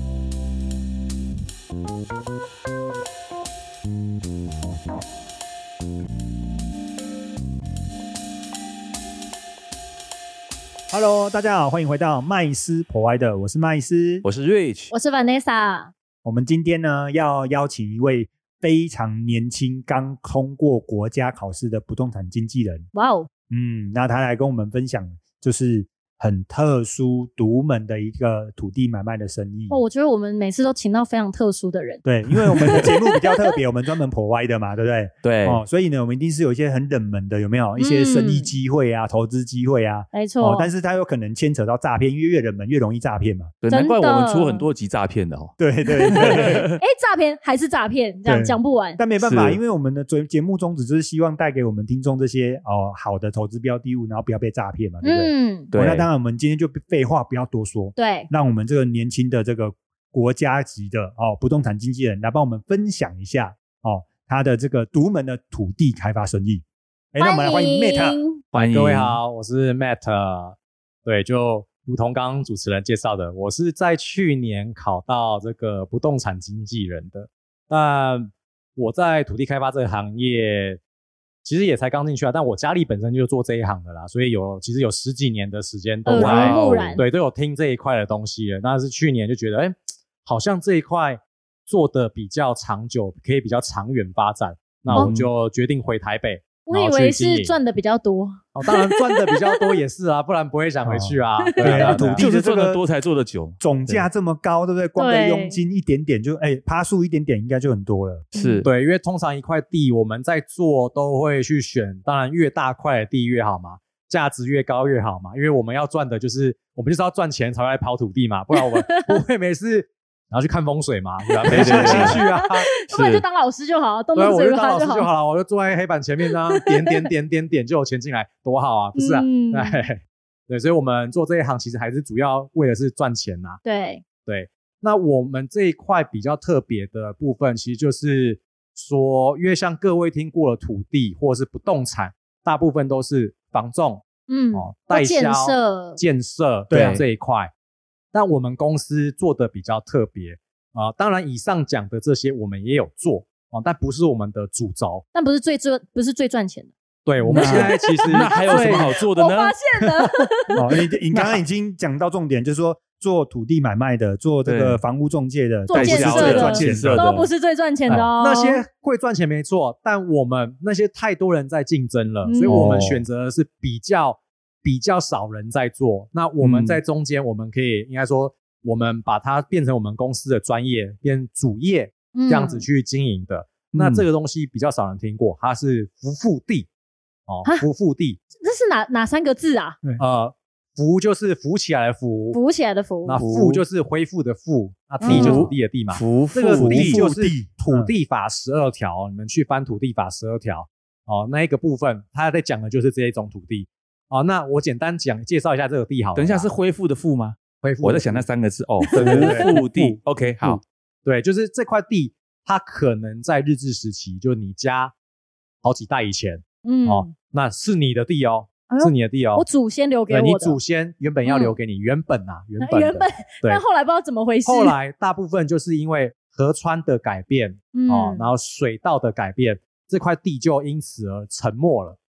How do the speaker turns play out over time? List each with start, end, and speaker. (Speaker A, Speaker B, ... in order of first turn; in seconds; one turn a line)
Speaker A: 10.9-14.2
Speaker B: 14.2-14.9
Speaker C: 14.9-15.9
Speaker A: 16.2-22.9
Speaker C: 22.9-23.3
Speaker A: 23.5-29.8
Speaker C: 29.7-32.0
Speaker A: 32.0-43.5
Speaker C: 32.6-33.5
Speaker B: 35.2-35.6
Speaker C: 37.8-38.5
Speaker C: 40.1-40.7
Speaker B: 43.6-45.5
Speaker C: 43.7-44.7
Speaker A: 45.6-46.7
Speaker C: 46.0-49.0
Speaker B: 46.1-46.8
Speaker A: 48.2-68.2
Speaker B: 49.2-49.6
Speaker C: 55.0-55.7
Speaker B: 55.7-56.1
Speaker C: 58.0-58.3
Speaker C: 67.2-68.4
Speaker B: 68.5-69.2
Speaker D: 68.7-80.8
Speaker D: 81.4-97.5
Speaker C: 86.0-87.0
Speaker B: 86.1-87.0
Speaker B: 94.9-95.3
Speaker C: 96.7-99.3
Speaker D: 98.5-102.2
Speaker A: 100.8-102.8
Speaker C: 101.4-102.0
Speaker B: 102.1-104.0
Speaker A: 103.6-108.2
Speaker C: 105.0-105.6
Speaker B: 108.3-108.7
Speaker C: 108.3-108.7
Speaker D: 108.6-122.7
Speaker C: 118.6-119.1
Speaker C: 121.5-125.1
Speaker B: 121.5-122.2
Speaker B: 122.9-123.2
Speaker D: 124.1-133.6
Speaker C: 126.5-126.9
Speaker C: 128.9-129.7
Speaker C: 133.6-134.0
Speaker D: 134.2-147.5
Speaker C: 144.3-146.0
Speaker A: 146.7-147.0
Speaker B: 146.7-147.0
Speaker D: 148.1-155.0
Speaker C: 155.1-156.7
Speaker D: 157.0-158.9
Speaker B: 157.3-159.6
Speaker C: 157.3-160.7
Speaker A: 160.6-167.2
Speaker B: 161.1-161.4
Speaker B: 164.4-164.8
Speaker C: 165.7-168.6
Speaker B: 165.7-167.2
Speaker D: 167.9-186.7
Speaker C: 172.2-172.7
Speaker A: 172.4-173.0
Speaker B: 176.4-176.8
Speaker C: 182.1-182.7
Speaker B: 183.7-184.0
Speaker D: 187.3-188.2
Speaker C: 188.4-189.8
Speaker D: 190.0-192.4
Speaker C: 192.3-193.2
Speaker D: 193.0-206.5
Speaker B: 193.2-193.6
Speaker C: 195.0-195.5
Speaker B: 195.0-197.0
Speaker A: 196.4-197.9
Speaker B: 206.1-210.6
Speaker D: 207.6-208.2
Speaker C: 208.8-209.5
Speaker D: 208.9-214.9
Speaker D: 215.6-219.4
Speaker C: 216.6-217.1
Speaker C: 218.7-220.6
Speaker D: 220.1-223.6
Speaker C: 221.2-221.5
Speaker C: 222.6-224.7
Speaker D: 224.4-232.0
Speaker C: 227.7-228.3